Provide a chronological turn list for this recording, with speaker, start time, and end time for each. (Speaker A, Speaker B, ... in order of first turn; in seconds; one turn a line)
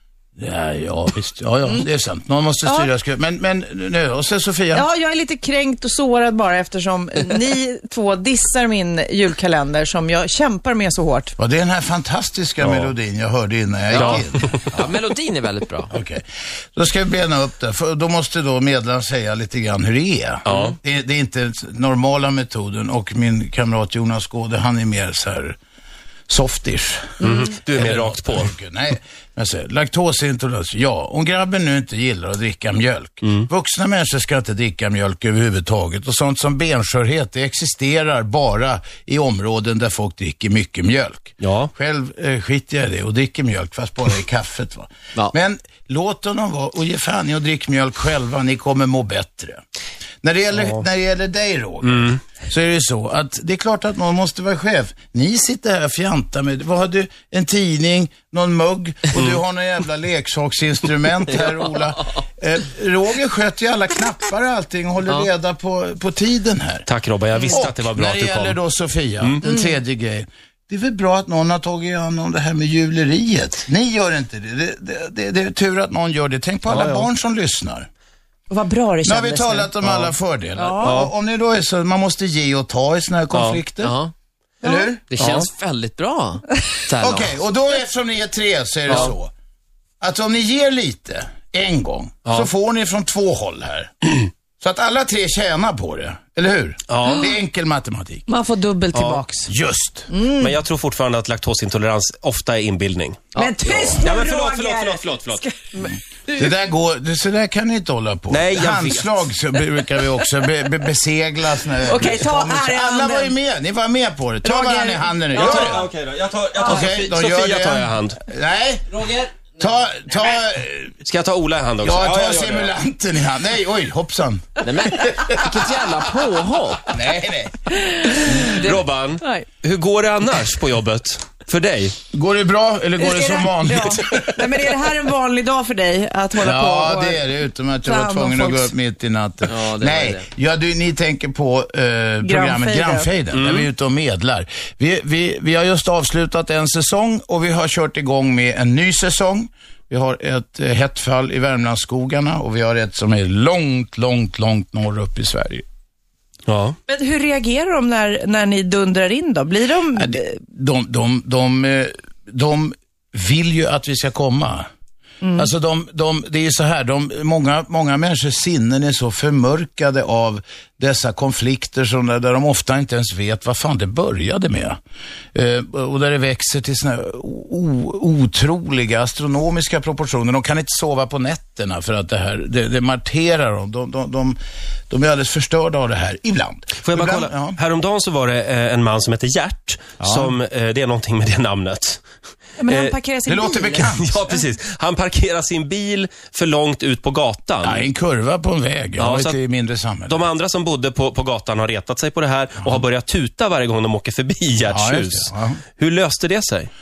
Speaker A: 0.4-4.8
Speaker B: 2.6-2.9
Speaker B: 4.7-11.3
Speaker A: 11.4-14.6
Speaker C: 12.6-12.9
Speaker C: 13.9-14.4
Speaker D: 13.9-15.9
Speaker A: 15.9-16.2
Speaker A: 16.7-25.6
Speaker C: 20.4-20.7
Speaker A: 26.3-49.6
Speaker C: 27.2-28.5
Speaker C: 41.4-41.7
Speaker A: 50.2-66.9
Speaker C: 50.5-50.8
Speaker C: 51.8-52.2
Speaker C: 59.1-59.4
Speaker C: 66.9-68.6
Speaker A: 67.5-77.9
Speaker B: 69.4-69.8
Speaker C: 76.7-77.1
Speaker B: 78.5-79.7
Speaker A: 79.0-84.0
Speaker B: 80.5-81.1
Speaker C: 80.8-81.1
Speaker C: 83.3-83.6
Speaker D: 83.8-84.1
Speaker A: 84.6-85.0
Speaker B: 84.6-84.9
Speaker D: 85.1-87.3
Speaker C: 85.2-85.5
Speaker A: 87.0-89.3
Speaker C: 88.9-89.1
Speaker A: 90.0-98.3
Speaker C: 96.9-97.3
Speaker B: 98.3-99.5
Speaker C: 98.9-99.2
Speaker A: 99.5-100.1
Speaker B: 100.1-100.6
Speaker C: 100.4-103.3
Speaker B: 103.3-106.5
Speaker A: 103.7-104.0
Speaker C: 104.0-105.4
Speaker A: 106.4-115.9
Speaker C: 108.3-109.2
Speaker B: 111.8-113.3
Speaker B: 114.4-115.8
Speaker C: 115.3-118.2
Speaker A: 116.6-119.0
Speaker D: 119.0-119.4
Speaker A: 119.6-121.0
Speaker C: 121.0-122.7
Speaker A: 121.8-125.7
Speaker D: 124.6-126.9
Speaker A: 126.9-127.7
Speaker B: 127.8-128.5
Speaker D: 128.4-128.8
Speaker C: 128.5-131.9
Speaker B: 129.2-129.5
Speaker A: 132.1-134.1
Speaker B: 133.0-137.2
Speaker A: 136.3-155.6
Speaker B: 137.8-138.7
Speaker D: 139.5-140.2
Speaker B: 142.2-143.1
Speaker C: 143.3-143.7
Speaker C: 156.5-156.8
Speaker B: 156.9-160.4
Speaker A: 159.9-164.7
Speaker B: 165.2-165.5
Speaker A: 165.3-174.8
Speaker A: 175.3-184.4
Speaker A: 184.9-187.6
Speaker C: 186.8-192.0
Speaker A: 190.0-190.3
Speaker B: 192.6-193.9
Speaker C: 192.7-192.9
Speaker A: 193.2-194.2
Speaker C: 193.8-197.8
Speaker A: 197.6-200.3
Speaker C: 199.0-199.4
Speaker C: 200.1-206.7
Speaker A: 204.6-205.6